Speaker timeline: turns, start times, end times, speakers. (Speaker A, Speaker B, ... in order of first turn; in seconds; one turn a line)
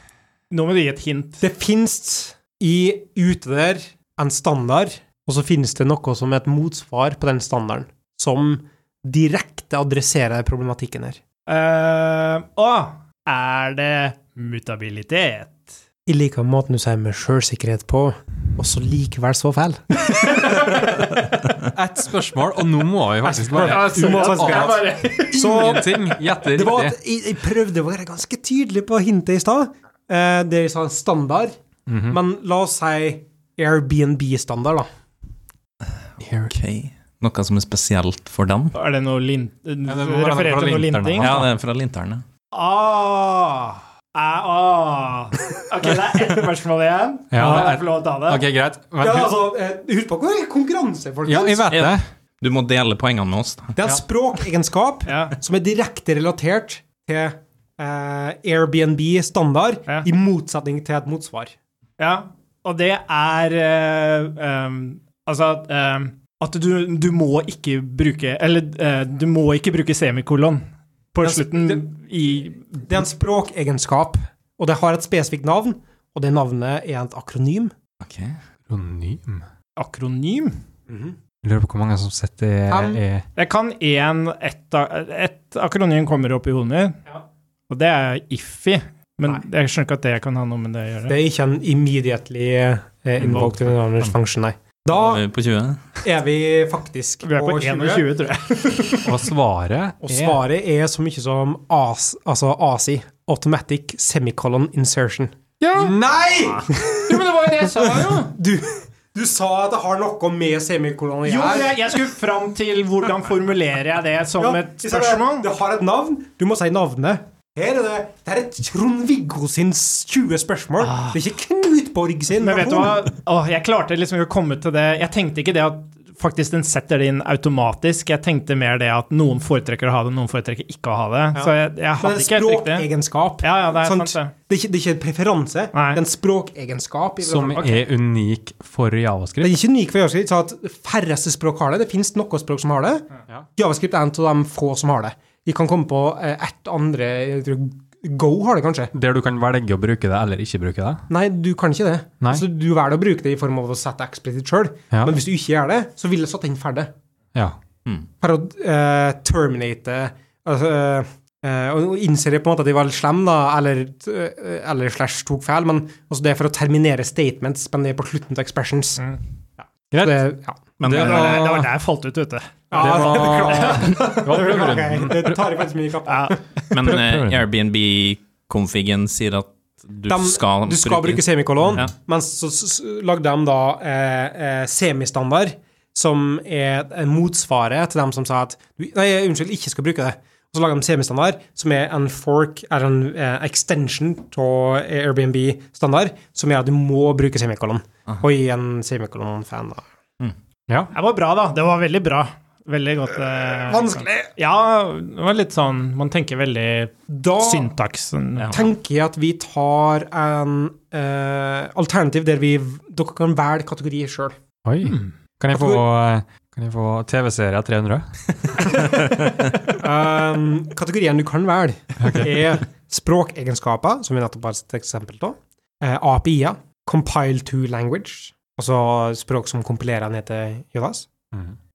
Speaker A: 0.5-1.4
Speaker B: 1.4-11.2
Speaker A: 11.5-15.7
Speaker B: 16.1-21.3
Speaker C: 21.6-27.0
Speaker B: 23.2-31.5
Speaker A: 23.5-25.6
Speaker C: 31.9-32.2
Speaker B: 32.1-34.9
Speaker C: 36.2-36.5
Speaker D: 36.5-38.7
Speaker A: 38.7-41.3
Speaker C: 39.9-41.5
Speaker D: 41.2-42.2
Speaker A: 42.5-48.4
Speaker C: 47.3-49.4
Speaker B: 49.0-51.7
Speaker C: 51.3-52.0
Speaker D: 51.7-53.8
Speaker B: 53.8-61.5
Speaker A: 55.1-55.4
Speaker A: 62.0-72.9
Speaker B: 71.2-71.8
Speaker B: 72.8-77.7
Speaker D: 78.0-78.4
Speaker C: 78.7-79.4
Speaker A: 79.8-80.5
Speaker B: 80.9-81.2
Speaker C: 81.4-83.2
Speaker B: 82.7-83.0
Speaker A: 83.4-87.0
Speaker A: 87.7-91.2
Speaker B: 91.1-95.2
Speaker C: 93.2-93.6
Speaker D: 94.9-95.8
Speaker B: 96.0-98.1
Speaker A: 97.2-99.0
Speaker B: 98.7-99.0
Speaker C: 99.0-100.4
Speaker B: 100.0-107.2
Speaker A: 105.6-108.3
Speaker B: 107.8-111.8
Speaker A: 111.2-115.5
Speaker B: 114.4-123.1
Speaker A: 120.8-121.2
Speaker A: 122.4-132.9
Speaker B: 131.3-137.9
Speaker A: 133.4-134.3
Speaker A: 135.7-136.0
Speaker C: 137.2-139.6
Speaker B: 139.4-148.9
Speaker C: 148.9-151.1
Speaker B: 151.1-156.9
Speaker C: 154.9-155.2
Speaker B: 158.2-169.0
Speaker B: 169.6-170.6
Speaker C: 169.9-170.3
Speaker D: 170.8-171.5
Speaker C: 170.8-171.7
Speaker A: 170.9-174.1
Speaker B: 172.7-176.4
Speaker C: 172.7-175.4
Speaker A: 176.1-176.4
Speaker D: 176.7-181.9
Speaker C: 176.8-177.4
Speaker B: 180.1-199.8
Speaker A: 200.9-208.6
Speaker B: 203.6-204.3
Speaker B: 207.1-207.7
Speaker D: 208.4-208.7
Speaker B: 208.5-214.4
Speaker C: 214.7-218.7
Speaker A: 214.8-215.1
Speaker B: 215.5-215.8
Speaker B: 219.7-231.1
Speaker C: 222.0-222.5